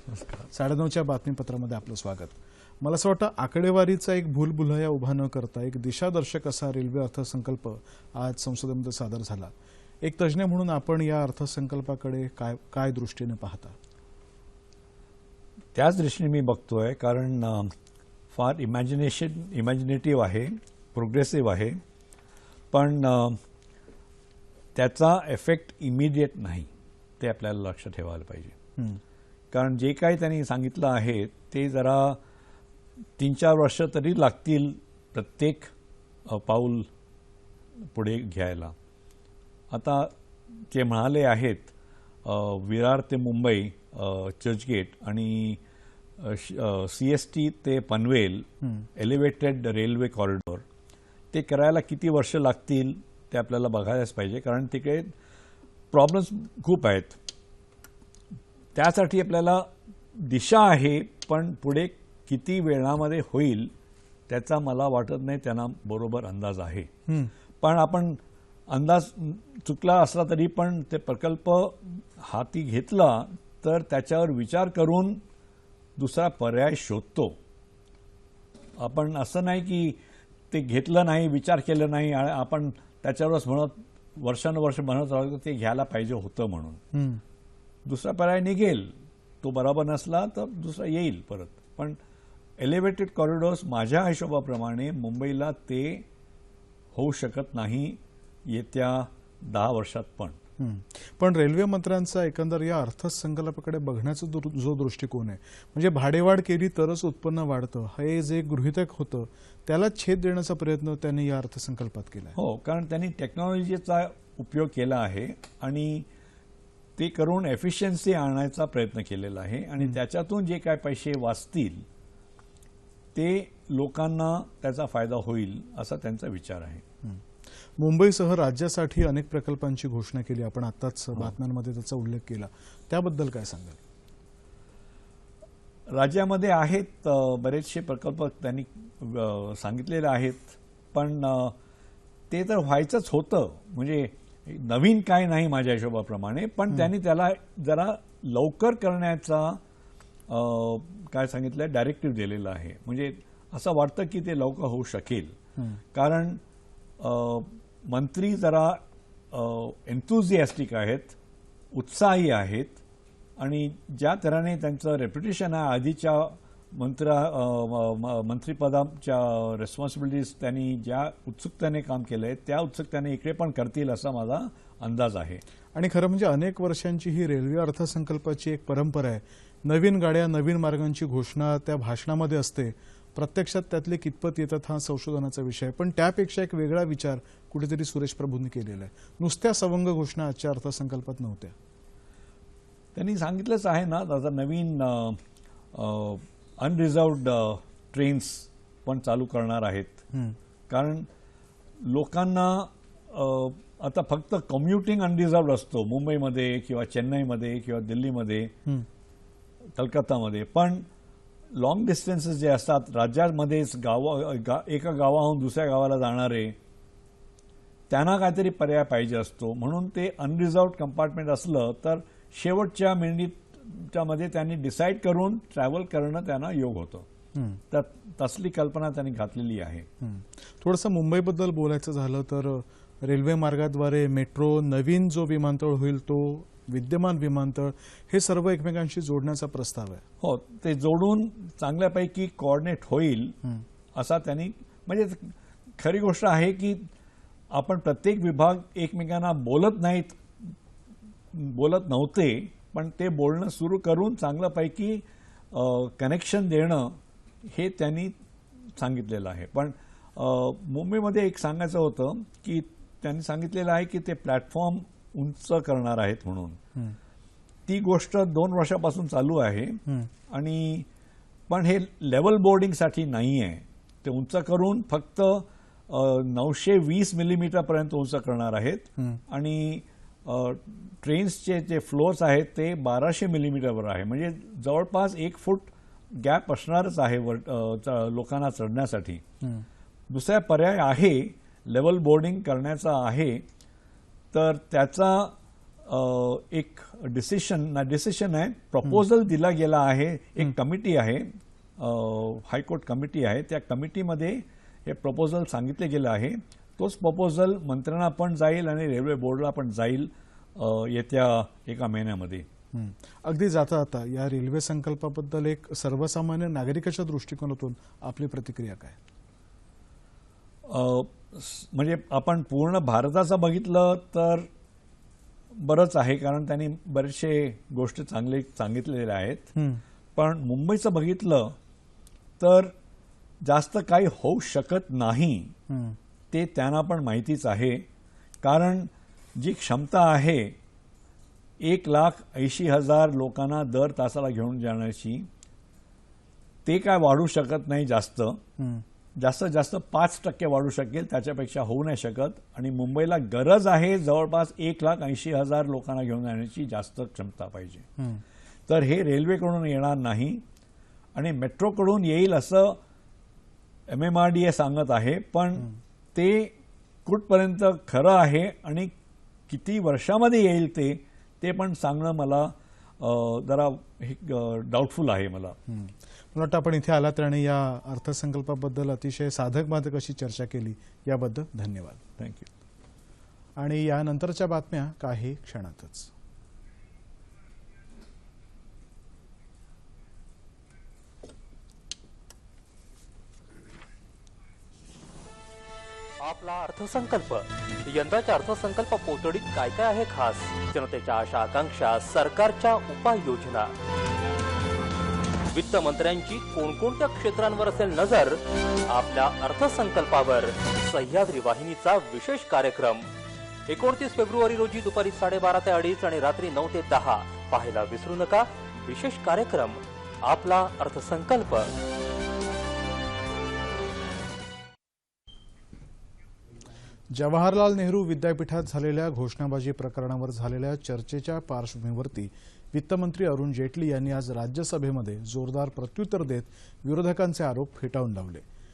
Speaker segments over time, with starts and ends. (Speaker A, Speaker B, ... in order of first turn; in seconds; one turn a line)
Speaker A: 0.5-9.5
Speaker A: 10.0-13.8
Speaker B: 15.7-17.7
Speaker B: 18.3-21.8
Speaker B: 22.7-23.4
Speaker B: 24.7-26.7
Speaker B: 27.2-28.5
Speaker B: 29.5-32.2
Speaker B: 33.2-35.7
Speaker B: 36.3-36.9
Speaker B: 37.9-38.7
Speaker B: 39.7-40.1
Speaker B: 40.7-41.7
Speaker B: 42.2-45.6
Speaker B: 46.2-50.6
Speaker B: 51.3-55.1
Speaker B: 55.9-57.2
Speaker B: 58.7-63.7
Speaker B: 64.3-66.9
Speaker B: 67.6-75.2
Speaker B: 76.0-77.3
Speaker B: 78.8-80.0
Speaker B: 80.5-86.8
Speaker A: 86.9-87.2
Speaker B: 87.8-92.0
Speaker B: 92.6-96.0
Speaker B: 96.9-100.4
Speaker A: 100.6-112.3
Speaker B: 112.4-116.0
Speaker B: 117.0-121.8
Speaker B: 123.1-126.8
Speaker A: 127.0-133.8
Speaker B: 135.9-141.5
Speaker B: 142.3-149.6
Speaker B: 150.3-155.3
Speaker B: 155.9-156.4
Speaker B: 157.0-158.8
Speaker B: 159.3-161.2
Speaker B: 161.7-162.8
Speaker B: 163.4-175.4
Speaker A: 175.7-191.5
Speaker B: 192.9-195.2
Speaker B: 195.7-200.0
Speaker B: 200.7-201.1
Speaker B: 201.8-208.5
Speaker B: 209.8-210.8
Speaker B: 211.5-216.6
Speaker B: 217.9-227.1
Speaker A: 227.3-227.6
Speaker B: 227.7-229.9
Speaker A: 230.0-240.0
Speaker B: 240.2-243.4
Speaker B: 243.9-246.9
Speaker B: 247.5-250.5
Speaker B: 251.3-258.1
Speaker B: 258.8-266.6
Speaker B: 267.7-270.9
Speaker B: 271.5-289.2
Speaker B: 290.1-293.4
Speaker B: 294.3-295.3
Speaker B: 295.9-312.4
Speaker A: 312.7-319.0
Speaker B: 320.7-324.5
Speaker B: 325.5-329.5
Speaker A: 329.6-329.8
Speaker B: 330.1-331.6
Speaker B: 332.4-332.7
Speaker B: 333.4-335.5
Speaker A: 335.7-336.0
Speaker B: 336.3-337.8
Speaker B: 338.4-340.6
Speaker B: 341.6-345.3
Speaker B: 346.6-348.4
Speaker A: 348.6-348.8
Speaker B: 349.2-357.9
Speaker A: 358.0-358.2
Speaker B: 358.7-360.4
Speaker B: 361.1-362.8
Speaker B: 363.9-366.5
Speaker B: 367.1-368.9
Speaker B: 369.5-375.6
Speaker A: 375.7-382.0
Speaker B: 382.2-382.5
Speaker A: 383.6-386.1
Speaker C: 396.2-403.7
Speaker C: 405.5-413.1
Speaker C: 413.7-421.8
Speaker A: 427.1-438.4